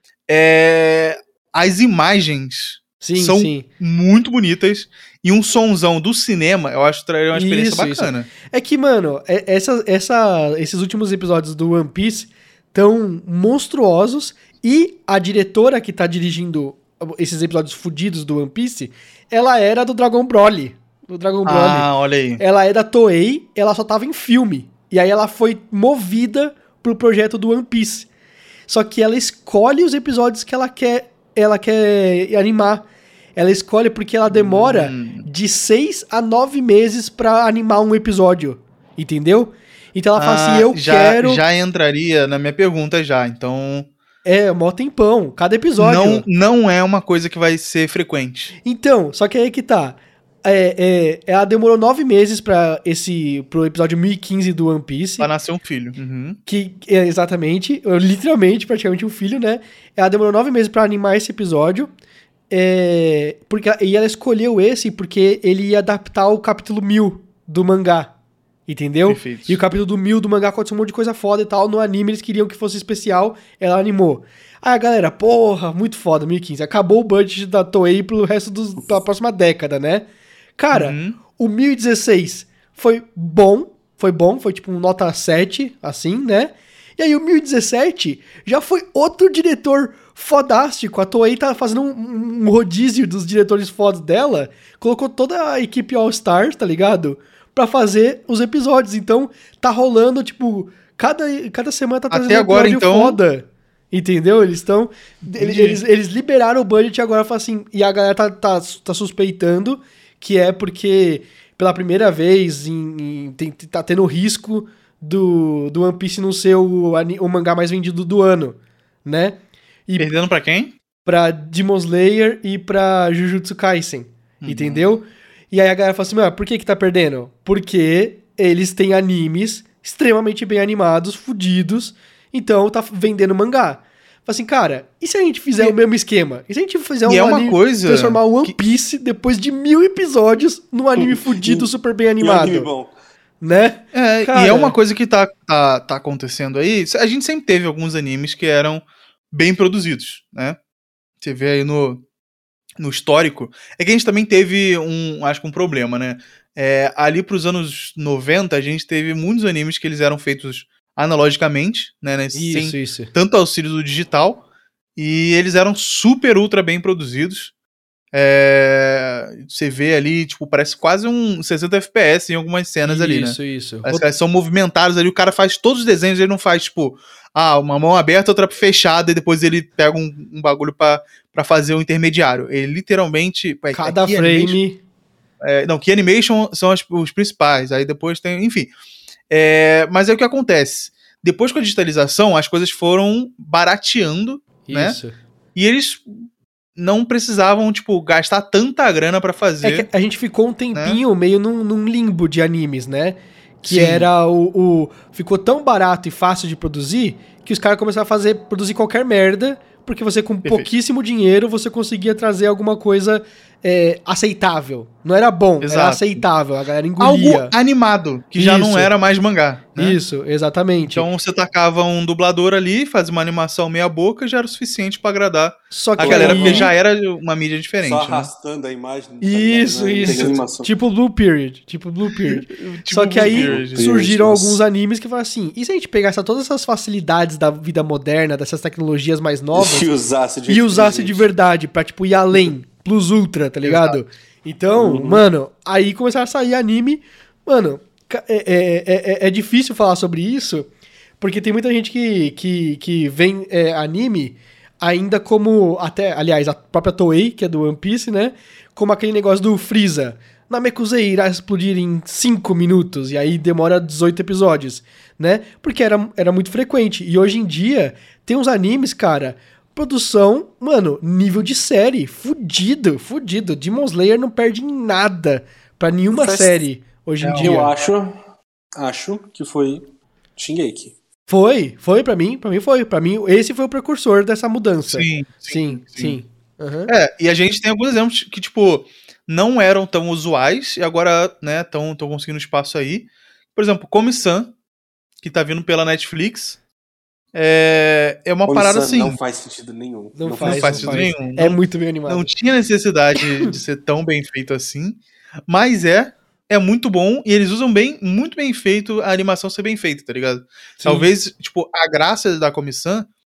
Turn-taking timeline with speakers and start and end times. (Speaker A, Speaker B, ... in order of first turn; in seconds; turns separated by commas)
Speaker A: 0.3-8.3, Speaker B: 3.0-3.6, Speaker B: 7.3-28.1, Speaker A: 21.4-22.4, Speaker B: 28.7-41.4, Speaker A: 34.3-35.3, Speaker A: 40.1-43.9, Speaker B: 44.2-46.2, Speaker A: 45.8-48.5, Speaker B: 48.6-55.3, Speaker A: 55.2-56.4, Speaker B: 56.5-61.9, Speaker B: 62.5-68.1, Speaker B: 68.7-80.0, Speaker A: 69.1-69.6, Speaker B: 80.6-120.1, Speaker A: 80.7-81.2, Speaker A: 102.1-103.2, Speaker A: 105.2-105.8, Speaker A: 120.0-120.7, Speaker B: 121.0-142.7, Speaker A: 124.4-124.8, Speaker A: 137.1-138.6, Speaker C: 140.9-141.7, Speaker C: 142.2-142.9, Speaker B: 143.4-144.7, Speaker A: 143.9-150.6, Speaker A: 151.2-152.0, Speaker A: 152.8-164.4, Speaker B: 162.3-163.1, Speaker A: 164.9-167.5, Speaker A: 168.1-184.6, Speaker B: 172.8-174.0, Speaker B: 183.7-184.8, Speaker A: 185.4-188.7, Speaker A: 189.3-195.0, Speaker B: 194.7-195.2, Speaker A: 195.5-199.9, Speaker B: 199.6-217.5, Speaker A: 200.7-201.0, Speaker A: 203.6-204.1, Speaker A: 210.4-210.7, Speaker A: 215.6-216.2, Speaker A: 217.0-220.0, Speaker B: 218.3-218.9, Speaker B: 219.8-221.1, Speaker A: 220.9-228.3, Speaker B: 225.7-226.7, Speaker C: 226.0-226.7, Speaker C: 227.8-230.7, Speaker B: 229.2-239.9, Speaker A: 230.1-230.3, Speaker A: 232.2-233.9, Speaker C: 233.2-234.6, Speaker C: 239.5-241.3, Speaker B: 240.5-250.7, Speaker A: 243.7-243.9, Speaker C: 244.7-245.2, Speaker B: 251.2-277.7, Speaker C: 276.1-276.6, Speaker A: 277.2-277.6, Speaker C: 277.4-278.2, Speaker C: 278.8-279.9, Speaker C: 280.4-280.9, Speaker B: 281.3-286.9, Speaker A: 284.9-286.2, Speaker A: 286.9-294.5, Speaker A: 295.2-296.6, Speaker A: 297.3-299.2, Speaker C: 298.5-301.1, Speaker B: 300.2-302.3, Speaker A: 300.4-313.1, Speaker B: 310.8-311.1